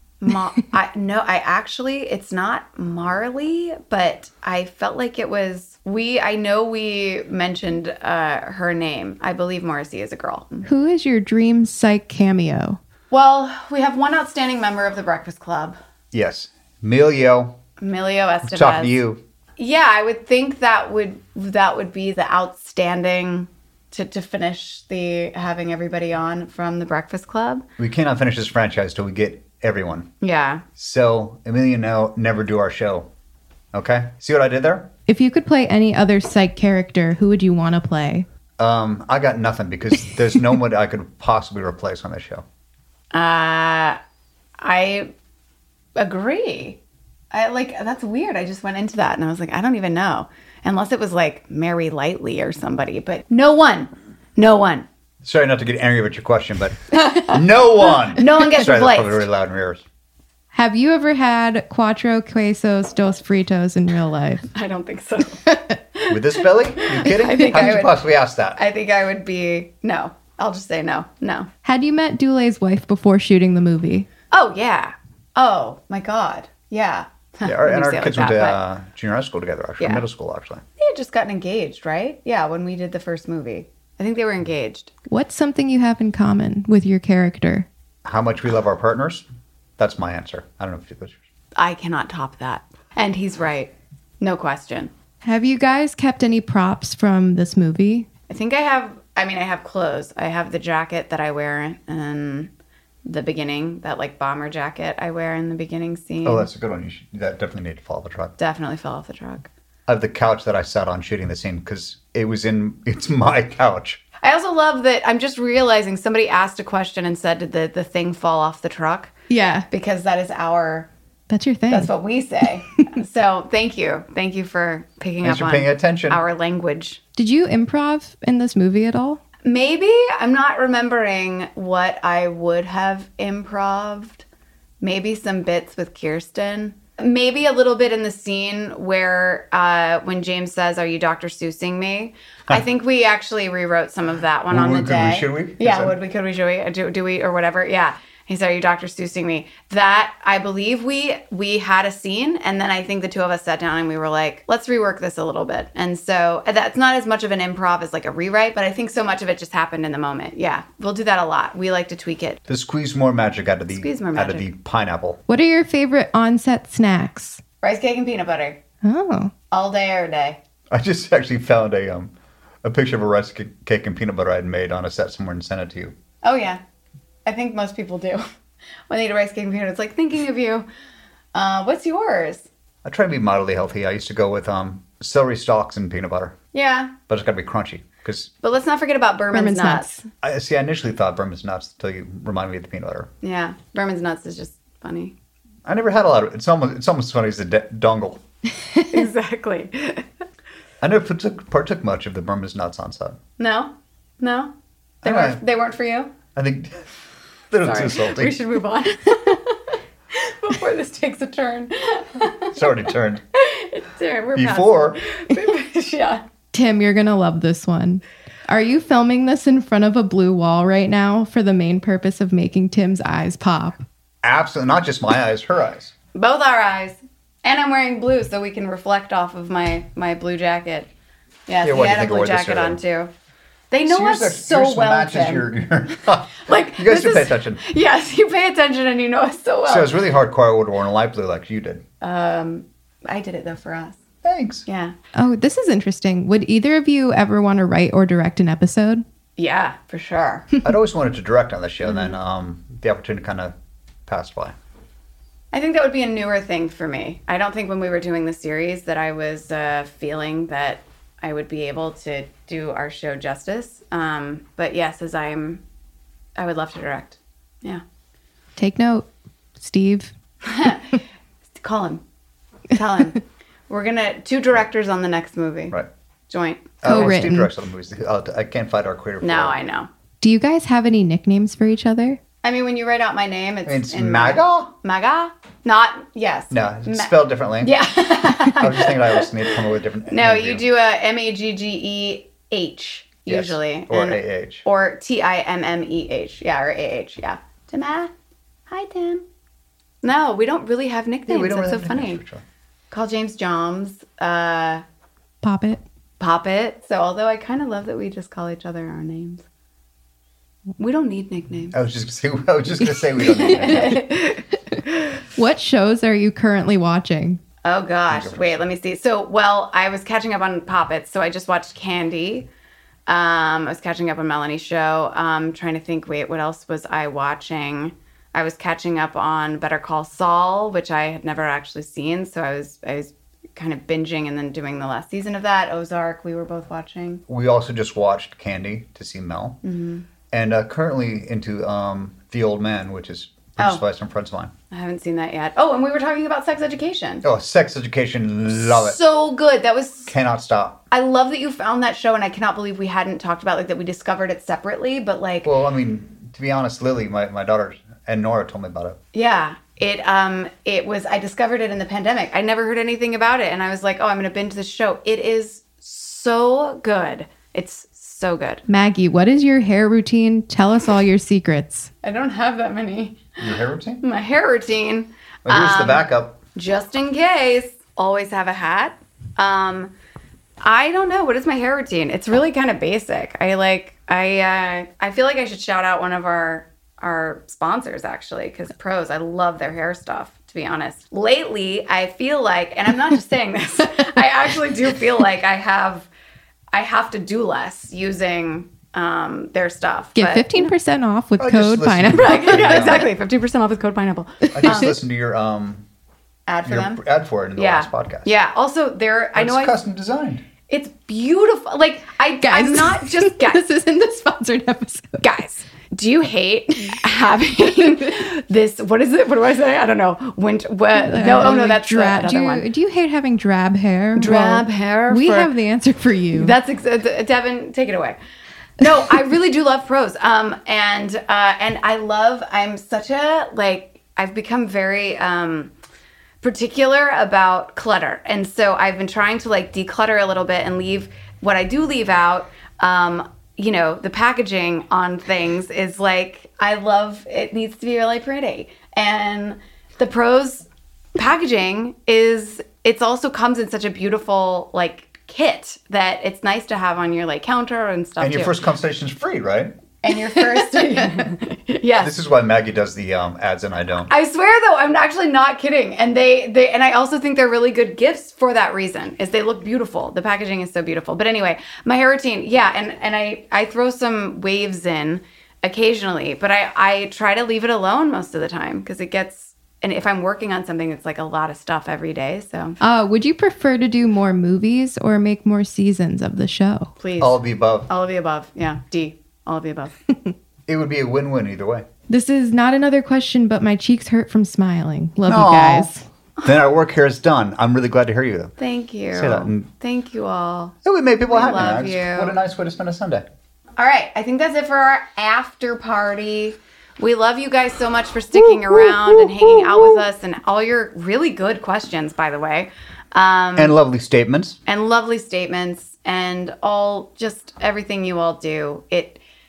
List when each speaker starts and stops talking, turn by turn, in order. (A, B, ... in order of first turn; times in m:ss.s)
0:00.2-0:10.7 A
0:10.6-0:12.8 B
0:13.1-0:15.8 A
0:16.1-0:17.6 C
0:17.8-0:19.0 A
0:18.4-0:19.2 C
0:19.6-0:27.6 A
0:27.8-0:30.1 C
0:30.2-0:30.6 A
0:30.8-0:33.1 C
0:33.7-0:34.9 C
0:35.1-0:38.2 B
0:38.6-0:42.4 C
0:43.1-0:44.0 A
0:44.6-0:45.1 A
0:46.0-0:46.8 A
0:47.3-0:54.9 A
0:55.2-0:59.8 C
0:56.9-0:57.4 A
0:57.9-0:59.2 A
1:00.5-1:04.5 B
1:04.5-1:05.4 A
1:05.5-1:05.8 B
1:06.1-1:08.6 C
1:06.8-1:07.9 A
1:07.3-1:07.7 B
1:08.6-1:11.5 A
1:11.6-1:14.1 B
1:14.3-1:18.6 A
1:17.4-1:20.6 C
1:19.8-1:20.0 A
1:20.8-1:24.9 A
1:25.1-1:27.7 B
1:28.0-1:29.2 C
1:29.8-1:31.1 C
1:31.6-1:34.9 A
1:35.2-1:38.1 B
1:38.3-1:42.5 A
1:43.0-1:46.5 A
1:46.2-1:48.4 C
1:48.4-1:49.5 A
1:49.9-1:54.0 C
1:54.2-1:59.1 A
1:59.3-1:59.7 B
1:59.7-2:00.9 A
2:01.3-2:01.9 B
2:01.7-2:07.0 A
2:05.2-2:06.2 C
2:07.2-2:09.2 B
2:09.4-2:14.2 A
2:14.8-2:42.4 A
2:24.5-2:26.0 C
2:42.5-2:45.2 C
2:43.7-2:44.4 A
2:45.3-2:47.4 B
2:47.6-2:48.6 A
2:48.8-2:49.3 B
2:49.5-2:50.4 A
2:50.7-2:55.9 C
2:56.2-2:56.6 A
2:57.2-2:58.2 A
2:58.9-3:00.7 A
3:01.3-3:02.5 A
3:02.8-3:06.4 C
3:06.5-3:06.9 A
3:07.1-3:08.3 C
3:08.4-3:10.0 A
3:09.3-3:10.0 B
3:10.2-3:13.1 C
3:13.2-3:15.1 A
3:15.6-3:18.2 C
3:18.9-3:20.0 A
3:20.8-3:23.2 C
3:23.4-3:26.1 A
3:25.0-3:25.4 C
3:26.3-3:26.9 C
3:27.5-3:28.4 C
3:27.6-3:29.5 A
3:30.1-3:32.6 A
3:32.5-3:33.2 C
3:33.3-3:36.2 A
3:34.3-3:35.0 C
3:36.5-3:43.8 B
3:44.2-3:45.9 C
3:46.1-3:50.9 A
3:51.5-3:53.1 A
3:51.6-3:52.8 C
3:53.7-3:55.4 A
3:53.9-3:57.6 C
3:56.4-4:00.0 A
3:59.7-4:01.8 C
4:02.0-4:04.0 A
4:04.2-4:04.6 C
4:04.6-4:04.9 A
4:05.1-4:09.0 B
4:09.4-4:10.5 A
4:10.6-4:13.5 C
4:11.8-4:12.2 A
4:14.1-4:14.6 C
4:15.5-4:25.6 A
4:26.4-4:27.8 A
4:28.6-4:30.1 B
4:30.4-4:31.0 A
4:31.6-4:32.0 A
4:32.7-4:35.8 A
4:36.3-4:37.2 A
4:36.8-4:39.6 C
4:36.8-4:37.5 B
4:39.2-4:39.9 A
4:40.2-4:42.2 B
4:42.4-4:49.4 A
4:43.6-4:44.7 C
4:46.5-4:47.7 C
4:48.4-4:50.6 C
4:50.1-4:58.1 A
4:53.3-4:54.6 C
4:58.7-4:59.2 A
5:00.0-5:02.2 A
5:01.3-5:02.4 C
5:02.9-5:04.8 A
5:05.4-5:05.8 B
5:06.2-5:09.4 A
5:10.8-5:11.8 A
5:11.7-5:14.0 C
5:13.3-5:15.0 A
5:13.4-5:14.0 B
5:15.4-5:17.4 B
5:17.6-5:22.5 A
5:18.1-5:18.6 C
5:23.1-5:37.2 A
5:37.3-5:39.6 C
5:39.6-5:40.0 A
5:40.3-5:44.5 C
5:44.7-5:47.2 A
5:47.2-5:49.0 C
5:48.5-5:50.1 A
5:50.1-5:50.8 C
5:50.9-5:55.5 A
5:55.4-5:59.0 C
5:59.1-6:08.6 A
6:08.7-6:11.9 B
6:12.0-6:13.4 A
6:13.4-6:14.0 C
6:14.0-6:19.9 A
6:15.4-6:16.4 C
6:20.6-6:36.1 A
6:36.7-6:40.7 A
6:40.2-6:43.0 B
6:41.4-6:43.1 C
6:42.1-6:44.9 A
6:44.5-6:45.8 C
6:46.5-6:47.0 A
6:46.6-6:48.3 C
6:47.5-6:49.8 A
6:49.4-6:50.4 C
6:50.7-6:53.6 A
6:52.4-6:55.2 B
6:55.2-7:02.6 A
7:01.0-7:06.6 B
7:04.2-7:05.5 A
7:06.3-7:08.2 A
7:08.8-7:15.7 A
7:16.4-7:38.6 A
7:38.2-7:39.8 C
7:40.0-7:42.1 A
7:42.0-7:44.1 C
7:44.1-8:02.8 A
8:02.8-8:06.9 B
8:07.0-8:10.0 A
8:07.2-8:07.9 C
8:10.7-8:11.8 C
8:12.1-8:16.0 B
8:15.2-8:15.9 C
8:16.4-8:18.5 C
8:18.6-8:20.7 A
8:19.1-8:19.7 C
8:20.8-8:23.2 C
8:21.3-8:22.4 A
8:23.8-8:33.7 A
8:29.1-8:29.8 C
8:33.6-8:34.6 C
8:34.6-8:39.2 A